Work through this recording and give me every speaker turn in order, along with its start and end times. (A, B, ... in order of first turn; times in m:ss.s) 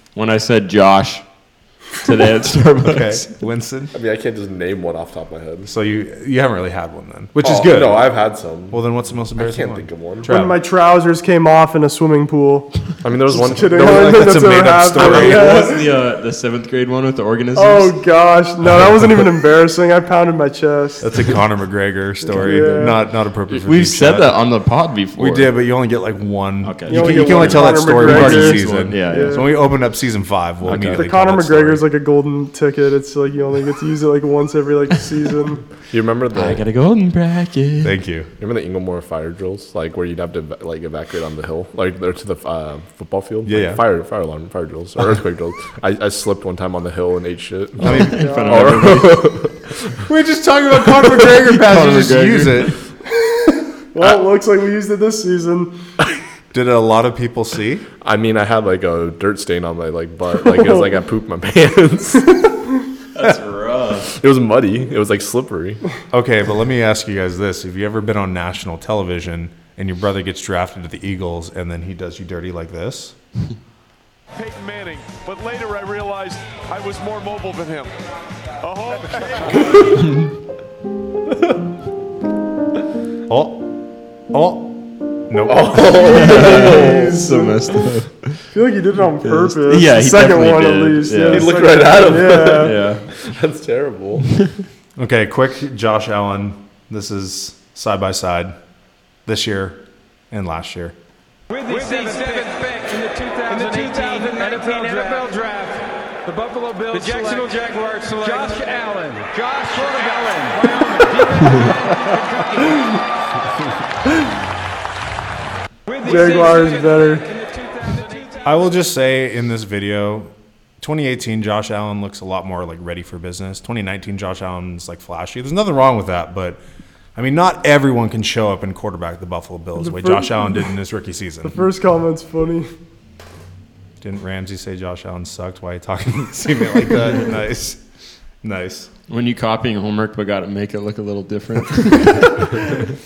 0:00.2-0:01.3 A
0:02.0-0:03.3 A
0:02.8-0:03.9 B
0:03.9-0:05.7 C
0:05.6-0:10.6 B
0:07.4-0:10.3 C
0:10.3-0:15.9 D
0:13.0-0:14.2 C
0:13.7-0:15.8 B
0:15.0-0:18.0 A
0:17.6-0:21.4 D
0:21.0-0:24.4 B
0:22.2-0:23.0 D
0:22.3-0:22.9 A
0:23.6-0:25.5 A
0:25.2-0:31.8 B
0:26.6-0:29.4 A
0:26.9-0:29.6 D
0:30.6-0:31.0 A
0:30.9-0:35.7 D
0:35.9-0:36.6 C
0:36.3-0:37.9 A
0:37.8-0:38.3 B
0:38.4-0:50.0 C
0:43.5-0:43.8 B
0:47.8-0:49.4 A
0:47.8-0:48.6 B
0:48.2-0:49.0 D
0:50.0-0:52.8 B
0:51.1-0:52.7 A
0:53.9-0:55.8 D
0:56.5-0:57.9 B
0:58.0-1:02.4 C
1:03.2-1:04.1 A
1:04.1-1:05.8 C
1:06.1-1:13.2 B
1:14.3-1:17.9 E
1:18.6-1:20.0 E
1:23.3-1:26.1 B
1:25.4-1:27.4 C
1:25.9-1:27.9 D
1:26.0-1:28.4 A
1:28.5-1:32.8 D
1:29.2-1:31.8 A
1:31.3-1:34.3 C
1:32.4-1:33.1 A
1:35.0-1:38.6 B
1:39.3-1:41.0 B
1:41.5-1:52.8 F
1:55.9-1:58.4 F
1:56.0-1:57.3 D
1:58.4-2:06.6 B
2:07.2-2:11.7 B
2:09.8-2:10.7 D
2:11.4-2:12.7 D
2:14.0-2:17.8 B
2:18.4-2:18.9 B
2:19.1-2:22.3 A